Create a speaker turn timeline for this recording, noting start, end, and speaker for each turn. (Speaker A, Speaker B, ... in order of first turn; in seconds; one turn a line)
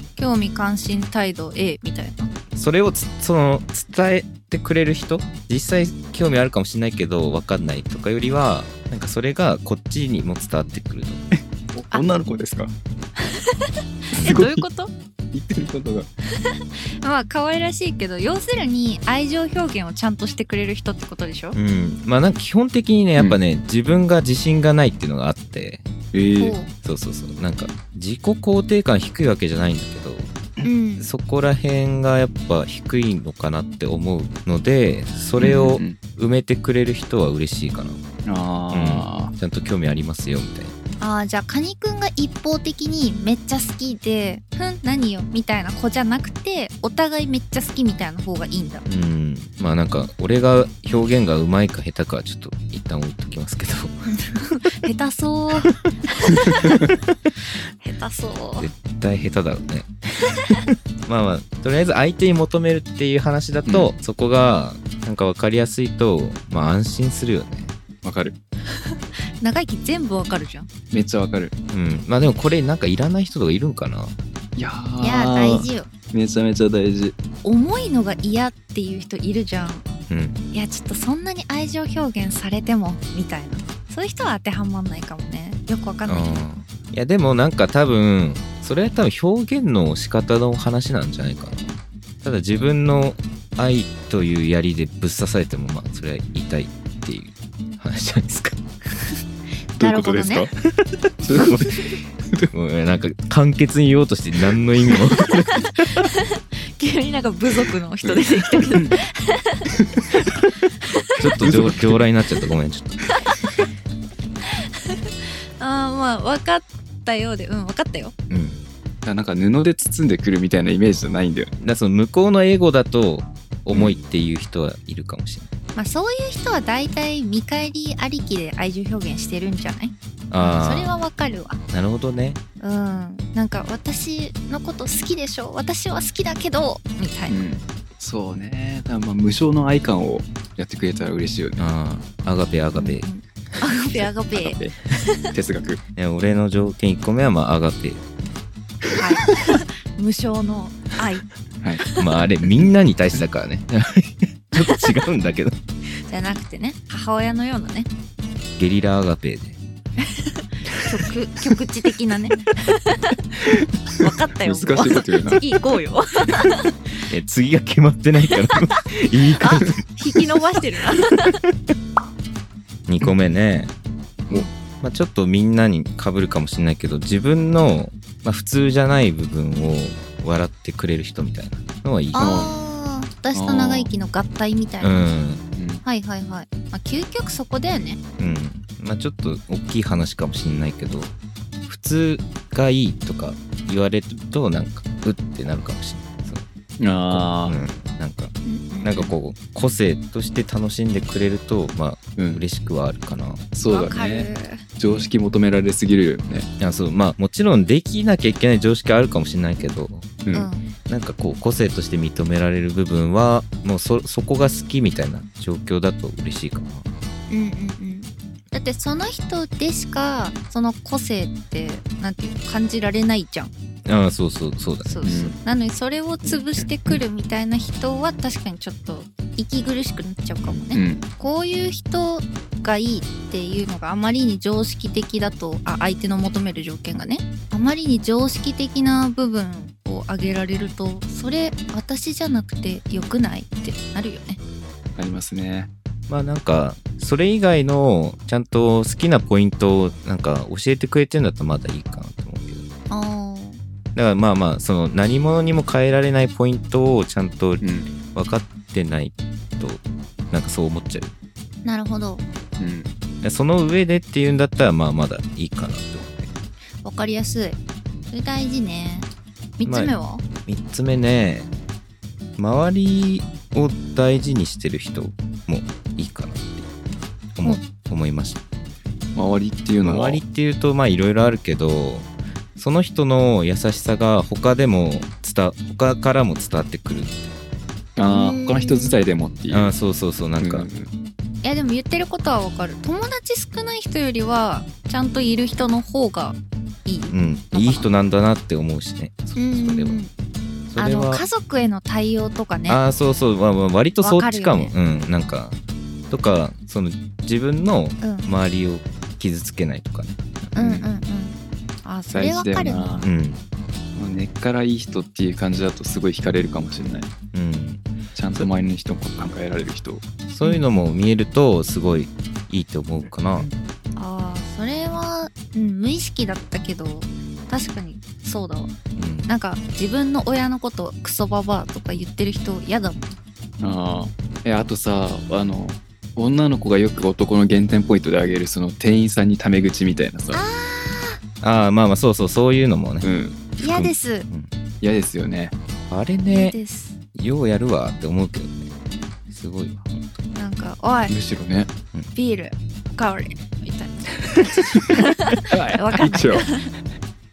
Speaker A: 0.2-2.3
Speaker B: 2.5-11.3
Speaker C: 11.3-12.7
Speaker A: 13.2-14.9
Speaker C: 14.2-14.6
Speaker C: 15.3-16.1
Speaker A: 16.6-21.6
Speaker B: 21.6-25.9
Speaker C: 26.1-26.6
Speaker A: 26.4-26.7
Speaker B: 26.8-30.4
Speaker A: 30.6-31.1
Speaker B: 31.0-38.0
Speaker C: 35.4-36.0
Speaker C: 38.3-39.3
Speaker B: 38.7-40.8
Speaker A: 41.0-48.8
Speaker B: 48.9-54.1
Speaker A: 54.1-56.8
Speaker A: 57.8-58.7
Speaker B: 58.6-67.8
Speaker C: 63.7-63.9
Speaker C: 68.0-68.4
Speaker A: 69.4-70.7
Speaker C: 70.9-71.5
Speaker B: 71.7-74.1
Speaker C: 74.6-77.2
Speaker A: 75.0-75.9
Speaker A: 77.4-79.9
Speaker B: 80.1-80.4
Speaker A: 80.5-86.4
Speaker B: 86.1-98.6
Speaker A: 99.8-100.5
Speaker C: 99.8-100.5
Speaker B: 100.8-101.9
Speaker C: 101.2-102.5
Speaker B: 102.5-105.9
Speaker A: 105.9-109.7
Speaker C: 108.0-109.0
Speaker C: 109.8-110.5
Speaker A: 110.8-111.2
Speaker B: 111.2-113.1
Speaker C: 111.4-112.0
Speaker A: 114.8-118.1
Speaker B: 118.3-118.6
Speaker C: 119.0-121.5
Speaker B: 121.6-125.5
Speaker C: 123.7-124.0
Speaker A: 125.8-131.6
Speaker B: 130.3-130.9
Speaker B: 131.7-132.4
Speaker A: 132.6-137.4
Speaker C: 137.3-141.6
Speaker B: 141.6-143.1
Speaker A: 142.8-145.3
Speaker C: 144.3-145.8
Speaker B: 146.0-148.0
Speaker A: 148.9-151.3
Speaker A: 151.8-152.1
Speaker B: 152.0-155.6
Speaker A: 156.1-157.9
Speaker B: 158.6-159.6
Speaker A: 160.0-163.2
Speaker C: 163.4-165.4
Speaker A: 164.0-166.7
Speaker B: 167.1-170.2
Speaker A: 169.4-171.4
Speaker B: 172.9-173.7
Speaker B: 174.8-182.4
Speaker A: 182.1-185.1
Speaker C: 182.2-182.5
Speaker C: 183.3-183.9
Speaker B: 184.8-185.4
Speaker C: 185.6-185.8
Speaker A: 185.8-188.0
Speaker B: 188.2-191.1
Speaker B: 191.7-196.4
Speaker C: 196.8-197.6
Speaker B: 197.1-203.5
Speaker A: 198.4-199.1
Speaker C: 202.2-202.4
Speaker C: 203.5-206.5
Speaker A: 203.7-204.6
Speaker B: 206.6-210.2
Speaker A: 210.3-210.7
Speaker B: 210.9-216.9
Speaker A: 217.3-223.5
Speaker B: 223.9-225.1
Speaker A: 224.8-244.4
Speaker C: 225.0-225.4
Speaker C: 230.7-231.1
Speaker C: 245.0-245.7
Speaker B: 246.1-252.7
Speaker A: 252.9-253.6
Speaker B: 253.9-261.1
Speaker C: 257.6-257.9
Speaker A: 261.6-262.2
Speaker C: 262.6-262.9
Speaker B: 263.2-266.3
Speaker A: 266.8-267.6
Speaker A: 268.1-270.2
Speaker B: 269.6-271.5
Speaker B: 272.4-276.7
Speaker B: 277.4-278.4
Speaker C: 279.1-280.2
Speaker B: 279.8-287.4
Speaker C: 288.0-289.7
Speaker A: 288.1-289.0
Speaker B: 289.5-290.7
Speaker C: 290.4-290.9
Speaker A: 291.4-297.9
Speaker B: 297.1-300.0
Speaker A: 299.4-300.1
Speaker B: 300.7-301.2
Speaker A: 300.8-302.8
Speaker B: 302.7-305.6
Speaker A: 304.0-304.7
Speaker B: 306.1-310.9
Speaker A: 308.0-308.3
Speaker A: 310.6-312.9
Speaker C: 312.1-313.1
Speaker B: 313.0-313.4
Speaker C: 313.9-317.1
Speaker B: 317.3-317.8
Speaker C: 318.1-320.0
Speaker B: 320.3-323.5
Speaker C: 323.0-323.5
Speaker A: 324.0-328.7
Speaker B: 329.0-329.3
Speaker A: 329.3-333.2
Speaker C: 333.6-340.4
Speaker A: 340.3-341.2
Speaker B: 341.4-344.5
Speaker C: 343.0-343.4
Speaker A: 343.6-344.3
Speaker C: 344.8-345.5
Speaker B: 345.9-346.6
Speaker A: 346.3-347.0
Speaker B: 347.1-348.7
Speaker B: 349.3-350.2
Speaker A: 350.4-351.1
Speaker C: 351.1-351.7
Speaker A: 352.1-356.7
Speaker C: 355.5-356.5